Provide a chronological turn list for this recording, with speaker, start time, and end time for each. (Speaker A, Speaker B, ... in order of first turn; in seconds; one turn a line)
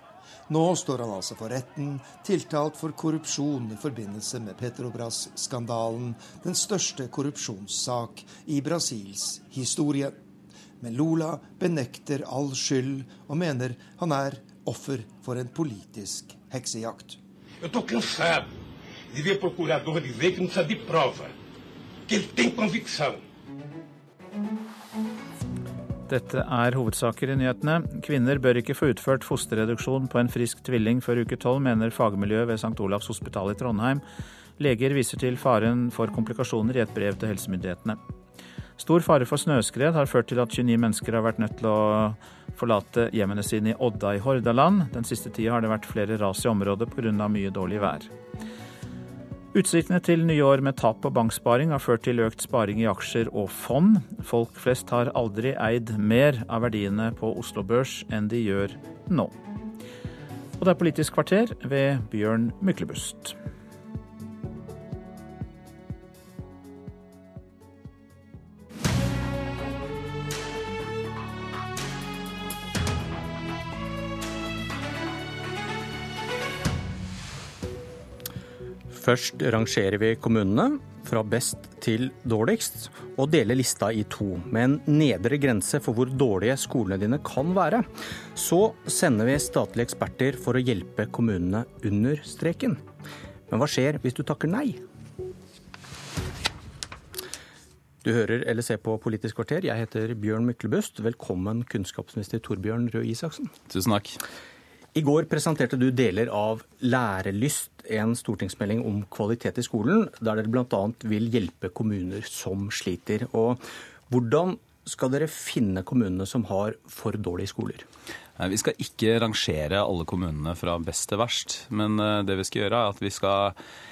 Speaker A: 0.5-10.2
Speaker A: 10.8-17.2
Speaker B: 17.6-18.5
Speaker B: 19.1-21.3
Speaker B: 22.1-23.2
Speaker C: 26.1-34.0
Speaker C: 34.6-38.0
Speaker C: 38.8-48.1
Speaker C: 49.5-59.3
Speaker C: 60.6-63.3
Speaker D: 78.9-92.8
Speaker D: 93.5-94.8
Speaker D: 98.0-103.5
Speaker E: 103.7-104.2
Speaker D: 104.9-117.8
Speaker E: 118.4-123.6